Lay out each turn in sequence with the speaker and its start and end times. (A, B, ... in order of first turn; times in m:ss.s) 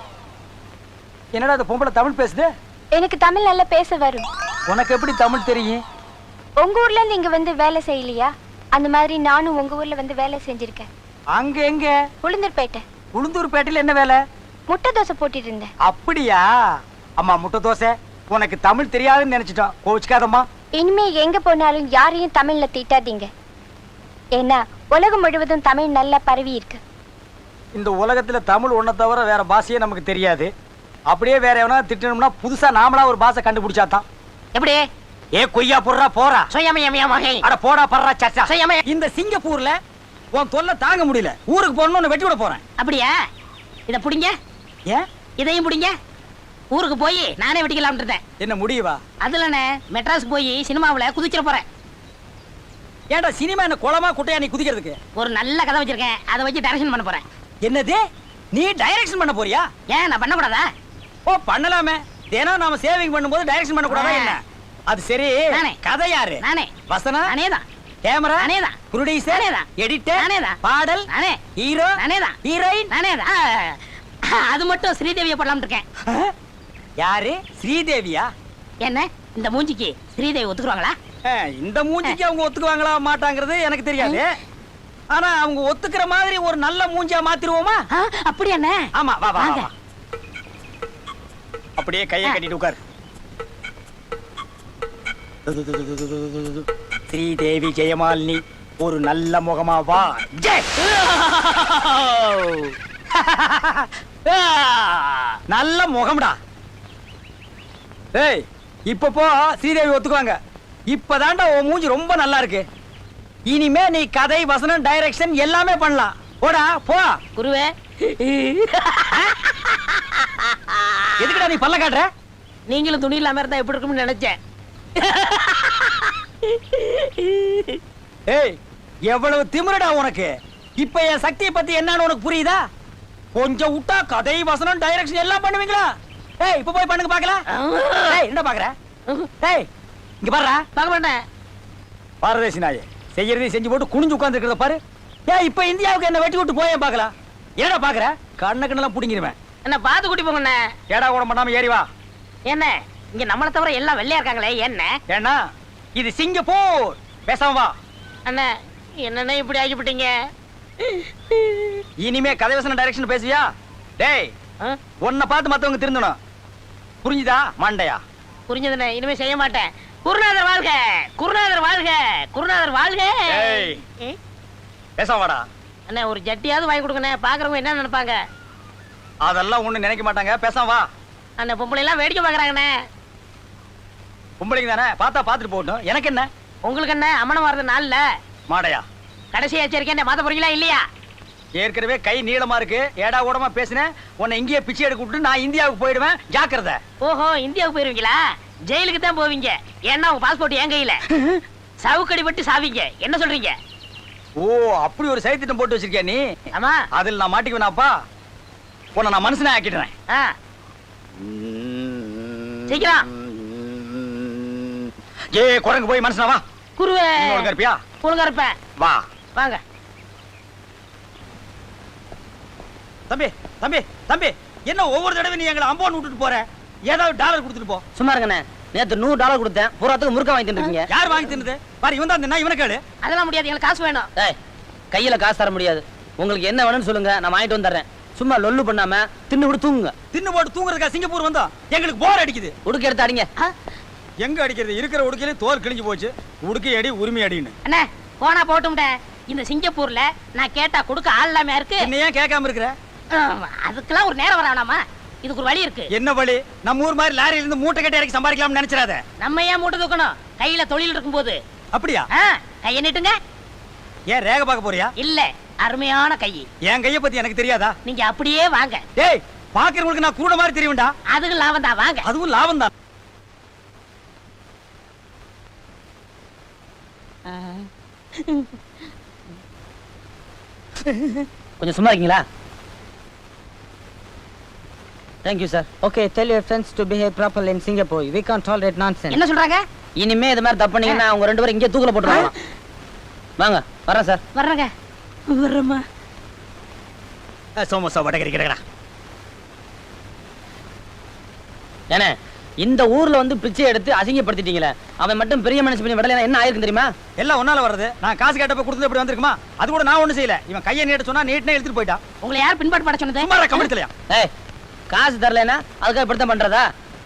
0:01.3-0:02.5 A
0:02.9-0:04.2 B
0:04.7-0:05.8 A
0:06.6-0:10.9 B
0:11.3-0:12.0 A
0:12.2-0:12.8 B
0:13.1-0:14.2 A
0:14.7-0:15.7 B
0:15.8-0:16.5 A
0:17.2-0:20.5 A
0:20.7-0:23.3 B
0:24.4-0:26.8 B
0:27.7-0:30.5 A
0:31.1-0:34.0 A
0:34.5-0:34.8 C
0:35.3-0:36.5 A
0:36.5-0:37.4 C
0:37.4-0:39.8 A
0:38.4-0:38.8 C
0:40.3-0:42.6 A
0:42.8-0:43.1 C
0:43.9-0:44.3 C
0:45.4-0:45.9 C
0:46.7-0:48.2 C
0:48.4-0:49.0 A
0:49.2-0:51.6 C
0:53.1-0:55.0 A
0:55.1-0:57.2 C
0:57.6-0:58.0 A
0:58.5-0:59.7 A
0:59.9-1:00.7 C
1:01.2-1:07.3 A
1:03.9-1:04.4 C
1:05.5-1:05.8 C
1:06.4-1:06.8 C
1:07.3-1:07.6 C
1:08.0-1:12.9 A
1:08.4-1:08.8 C
1:09.3-1:10.6 C
1:11.1-1:11.4 C
1:12.0-1:12.4 C
1:12.9-1:15.8 C
1:16.0-1:16.3 A
1:17.0-1:18.3 A
1:18.8-1:20.9 C
1:21.2-1:24.3 A
1:25.1-1:27.8 A
1:27.9-1:29.7 C
1:28.9-1:29.7 A
1:31.8-1:32.8 A
1:35.4-1:46.4 A
1:41.0-1:41.3 C
1:48.1-1:50.4 A
1:50.9-1:52.6 A
1:53.5-1:57.2 A
1:57.4-2:01.4 C
2:01.2-2:02.1 A
2:02.7-2:04.4 C
2:05.0-2:07.8 C
2:08.3-2:12.6 A
2:13.3-2:17.4 A
2:17.5-2:18.2 C
2:18.0-2:18.7 A
2:19.4-2:19.7 A
2:20.2-2:20.6 A
2:20.7-2:21.2 C
2:22.2-2:29.3 A
2:29.6-2:30.6 C
2:30.9-2:31.9 A
2:32.5-2:34.9 C
2:35.1-2:35.4 A
2:35.9-2:37.7 A
2:38.3-2:40.1 C
2:40.8-2:41.8 C
2:42.0-2:44.3 A
2:45.0-2:46.2 A
2:47.0-2:48.0 A
2:48.5-2:54.2 C
2:53.3-2:53.8 A
2:55.0-2:55.4 A
2:55.9-2:58.2 C
2:59.2-3:00.9 A
3:01.4-3:02.7 C
3:04.4-3:06.3 A
3:06.6-3:08.0 C
3:08.5-3:08.8 A
3:09.3-3:10.8 C
3:11.6-3:16.8 A
3:17.0-3:21.0 C
3:21.8-3:23.6 C
3:24.4-3:26.2 A
3:26.5-3:26.8 C
3:26.9-3:27.9 A
3:28.9-3:29.9 A
3:31.2-3:36.4 A
3:32.7-3:33.0 C
3:36.8-3:38.5 C
3:37.2-3:37.8 A
3:38.8-3:39.0 A
3:39.3-3:39.6 C
3:43.1-3:47.8 A
3:48.0-3:50.9 D
3:50.6-3:51.2 C
3:50.9-3:52.8 A
3:53.0-3:54.1 C
3:54.9-3:59.9 D
4:00.1-4:02.5 A
4:02.6-4:03.3 D
4:04.2-4:07.5 A
4:07.6-4:11.9 C
4:11.8-4:12.7 A
4:13.1-4:15.9 C
4:15.9-4:19.0 A
4:19.2-4:21.4 C
4:21.7-4:22.1 A
4:22.1-4:23.2 C
4:24.1-4:24.9 A
4:25.0-4:26.5 C
4:26.7-4:27.7 A
4:27.8-4:28.8 C
4:29.0-4:30.9 A
4:31.1-4:32.1 C
4:32.0-4:32.7 A
4:37.3-4:38.6 C
4:41.6-4:42.2 D
4:45.2-4:45.7 D
4:45.8-4:49.2 E
4:49.1-4:49.6 C
4:50.0-4:52.3 D
4:52.0-4:52.3 C
4:53.4-4:54.2 D
4:54.3-4:54.7 C
4:55.3-4:55.8 C
4:57.6-4:58.6 A
5:01.9-5:06.9 D
5:07.2-5:12.0 A
5:12.2-5:13.7 C
5:13.2-5:13.9 A
5:14.9-5:16.6 D